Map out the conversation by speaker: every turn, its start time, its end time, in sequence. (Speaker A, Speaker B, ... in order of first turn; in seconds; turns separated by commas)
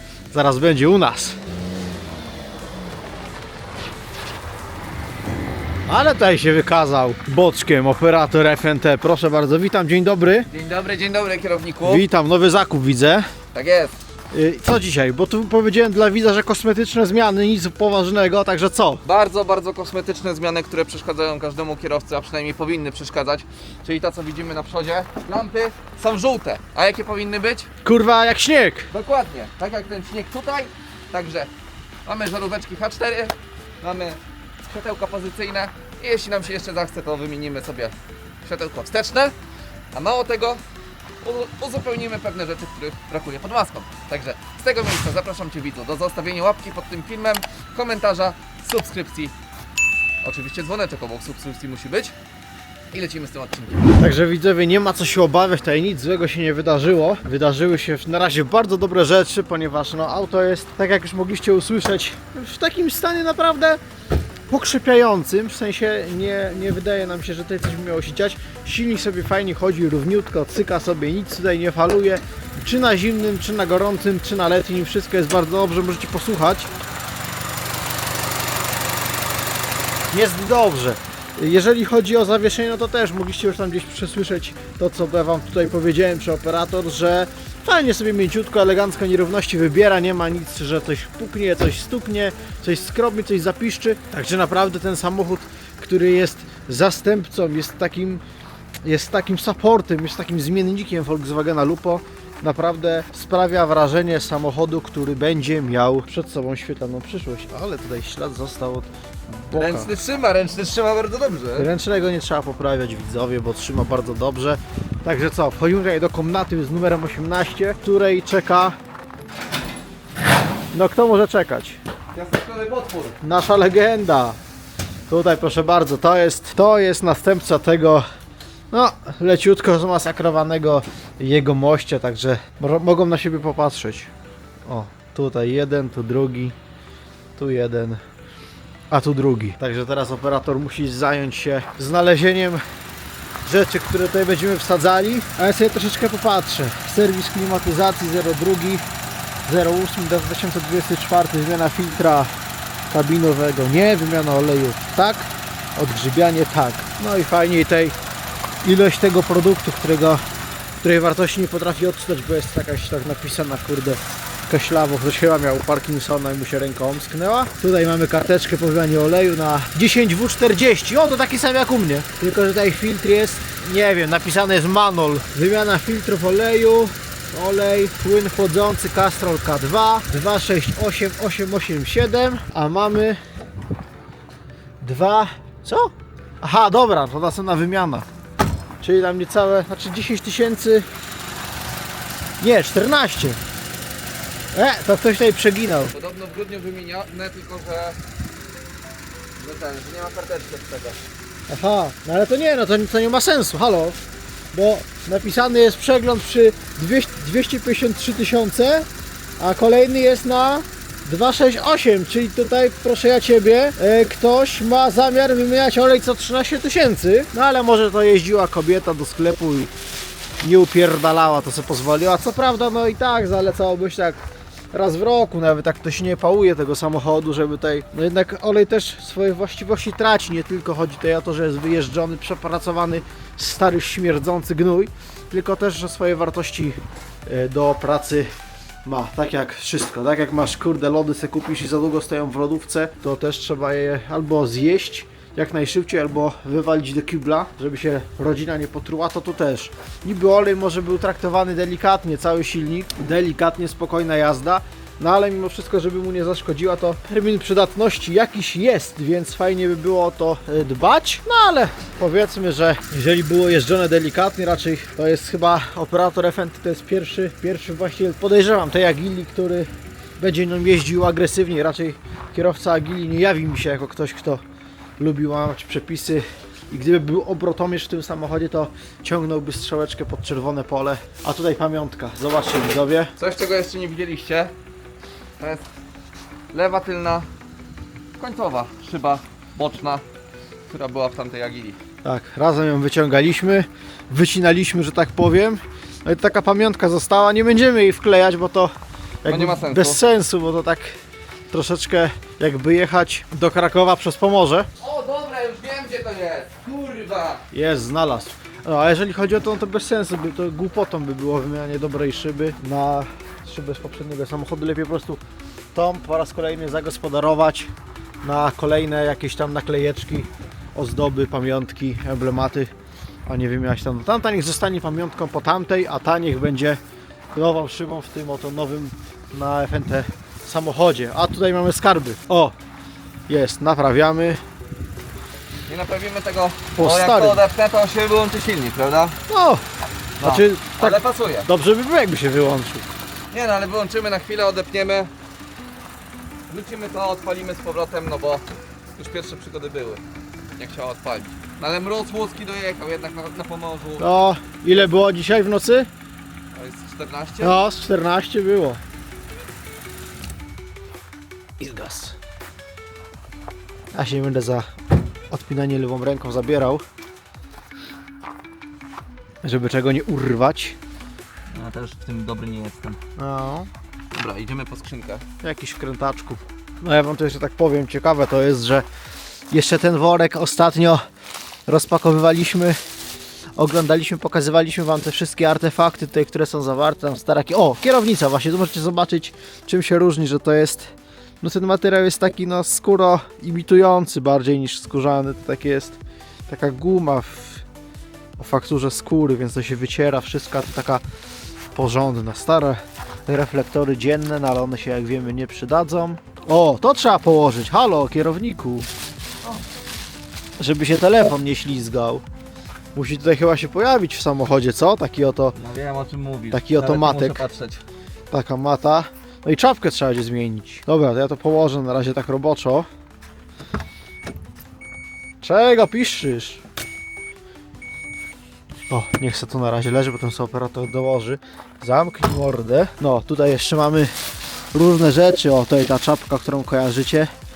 Speaker A: 0.3-1.4, Speaker A: 5.9-10.5, Speaker B: 10.5-12.0, Speaker A: 11.8-13.3, Speaker B: 13.5-13.9, Speaker A: 14.3-19.0, Speaker B: 19.0-27.7, Speaker A: 27.8-28.9, Speaker B: 28.9-31.5, Speaker B: 32.0-39.3, Speaker B: 39.9-40.6, Speaker B: 41.2-49.3, Speaker B: 50.2-52.1, Speaker B: 52.9-53.9, Speaker A: 54.0-63.8, Speaker A: 64.5-76.7, Speaker A: 80.1-98.2, Speaker A: 98.8-109.9, Speaker B: 109.5-111.7, Speaker A: 111.5-118.8, Speaker A: 120.7-121.8, Speaker B: 122.1-123.2, Speaker A: 123.2-124.4, Speaker A: 125.1-128.1, Speaker A: 128.7-134.1, Speaker A: 134.7-136.6, Speaker A: 137.4-138.0, Speaker A: 138.9-142.6, Speaker A: 143.4-148.9, Speaker A: 149.4-152.3, Speaker A: 152.9-157.9, Speaker A: 158.6-160.2, Speaker A: 160.8-183.2, Speaker A: 184.8-188.1, Speaker A: 188.8-190.9, Speaker A: 192.4-193.4, Speaker A: 194.5-195.9, Speaker B: 195.9-198.0, Speaker B: 199.3-201.0, Speaker A: 201.5-204.0, Speaker A: 204.5-208.9, Speaker A: 209.4-219.7, Speaker A: 220.4-224.2, Speaker A: 224.7-238.3, Speaker A: 238.8-274.4, Speaker A: 275.0-283.1, Speaker B: 283.2-284.5, Speaker B: 285.4-285.7, Speaker B: 286.5-287.3, Speaker B: 288.2-290.0, Speaker B: 290.7-291.8, Speaker A: 292.0-298.7, Speaker A: 299.2-301.0, Speaker B: 299.2-300.0, Speaker A: 301.5-304.7, Speaker B: 304.8-307.4, Speaker A: 307.5-315.2, Speaker A: 315.7-322.7, Speaker A: 323.2-326.8, Speaker A: 327.3-332.5, Speaker A: 333.3-334.4, Speaker B: 335.7-339.2, Speaker A: 336.8-337.4, Speaker A: 339.3-339.6, Speaker B: 340.2-341.5, Speaker A: 340.2-342.9, Speaker B: 343.3-345.1, Speaker B: 346.5-350.0, Speaker B: 350.6-354.1, Speaker A: 354.0-355.9, Speaker B: 356.5-357.6, Speaker A: 357.4-358.8, Speaker A: 361.6-362.2, Speaker A: 363.9-364.7, Speaker A: 365.3-366.8, Speaker A: 369.4-370.8, Speaker B: 371.5-373.0, Speaker A: 373.2-373.7, Speaker B: 374.1-375.2, Speaker A: 375.4-378.9, Speaker A: 379.5-381.0, Speaker A: 381.7-382.8, Speaker A: 383.6-397.6, Speaker A: 398.4-401.0, Speaker A: 401.7-408.9, Speaker A: 410.6-412.2, Speaker A: 412.9-415.6, Speaker B: 415.5-417.8, Speaker A: 416.5-417.4, Speaker A: 418.3-422.9, Speaker A: 425.4-426.6, Speaker A: 428.9-434.1, Speaker A: 434.7-437.3